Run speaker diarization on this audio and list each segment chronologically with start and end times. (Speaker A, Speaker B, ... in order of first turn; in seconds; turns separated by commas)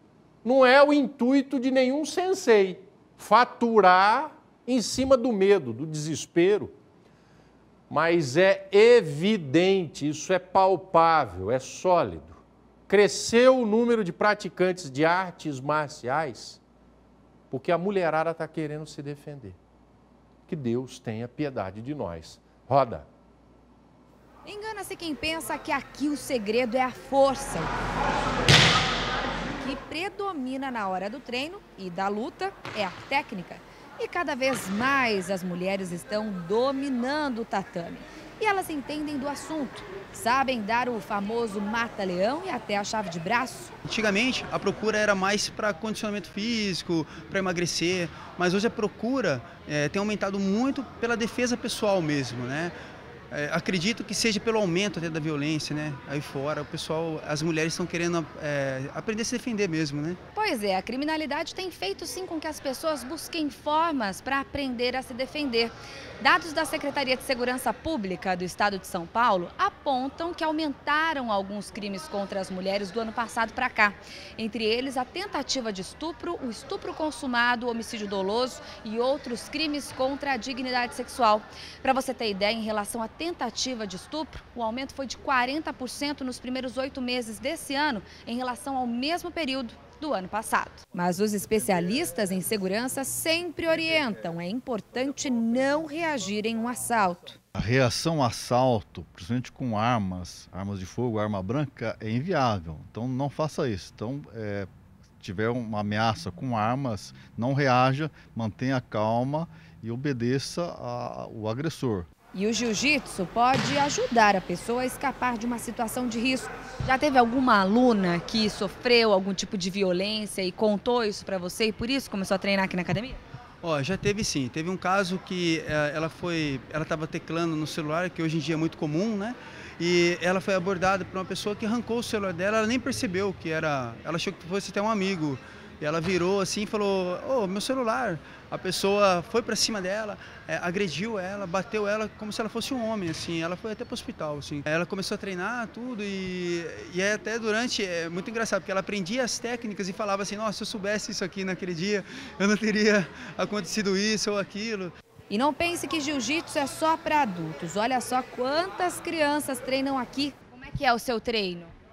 Speaker A: 0.4-6.7, Speaker A: 7.9-16.6, Speaker A: 17.5-19.6, Speaker A: 20.5-23.1, Speaker B: 24.4-27.7, Speaker B: 29.6-43.7, Speaker C: 43.9-52.7, Speaker C: 53.3-60.2, Speaker B: 60.3-97.4, Speaker D: 97.5-104.7, Speaker D: 105.2-112.1, Speaker B: 112.3-123.2, Speaker C: 123.6-154.9, Speaker B: 155.3-161.7